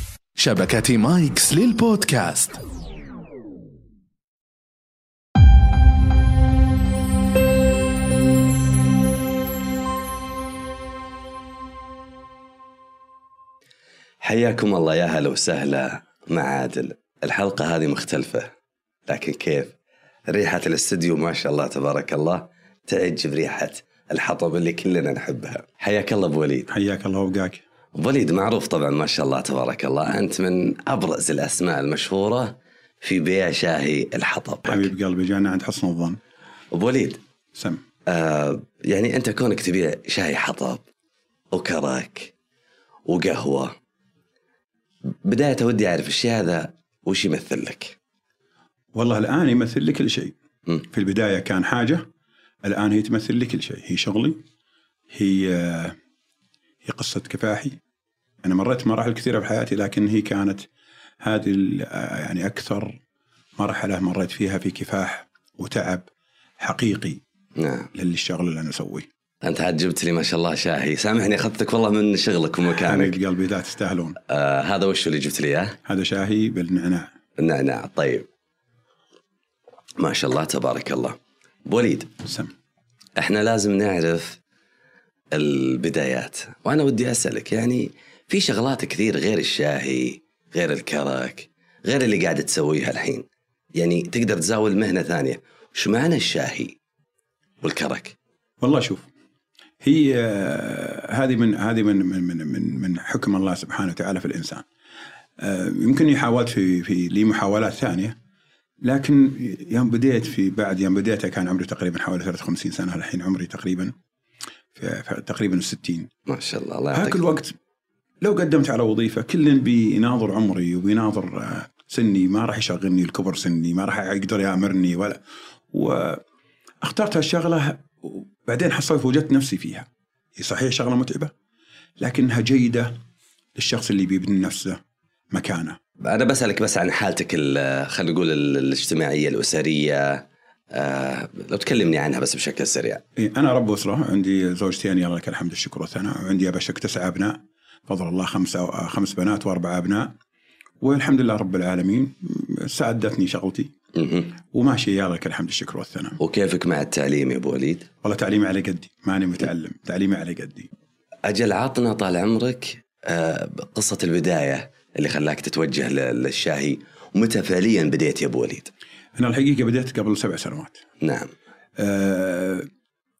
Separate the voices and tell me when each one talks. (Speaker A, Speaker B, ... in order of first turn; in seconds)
Speaker A: 0.3-2.6
Speaker B: 14.2-18.5, 19.1-19.7, 20.3-26.7, 27.9-34.9, 36.7-37.2, 38.1-40.8, 41.5-42.3, 43.1-43.7, 45.2-48.0, 67.6-67.9, 69.4-73.2, 74.3-75.8, 77.4-78.3, 80.0-82.1, 83.2-84.4, 85.3-96.8, 97.6-98.2, 116.3-117.3, 136.0-143.0, 153.9-154.3, 156.2-157.9, 161.2-168.7, 171.0-171.3
Speaker C: 26.7-27.6, 34.6-36.2, 37.5-37.8, 48.9-52.0, 52.6-54.4, 55.1-56.0, 56.8-57.8, 58.4-60.6, 61.2-63.0, 63.6-66.0, 66.6-67.2, 67.9-69.0, 72.7-74.2, 75.8-77.1, 82.2-82.5, 98.6-99.0, 99.8-104.6, 105.4-108.2, 108.8-113.9, 114.8-116.1, 116.9-117.5, 118.2-125.2, 125.7-126.2, 126.8-131.3, 132.0-132.9, 133.6-134.8, 135.3-135.8, 143.2-150.1, 150.8-153.7, 154.5-156.2, 158.0-160.7, 169.2-170.8, 171.8-172.7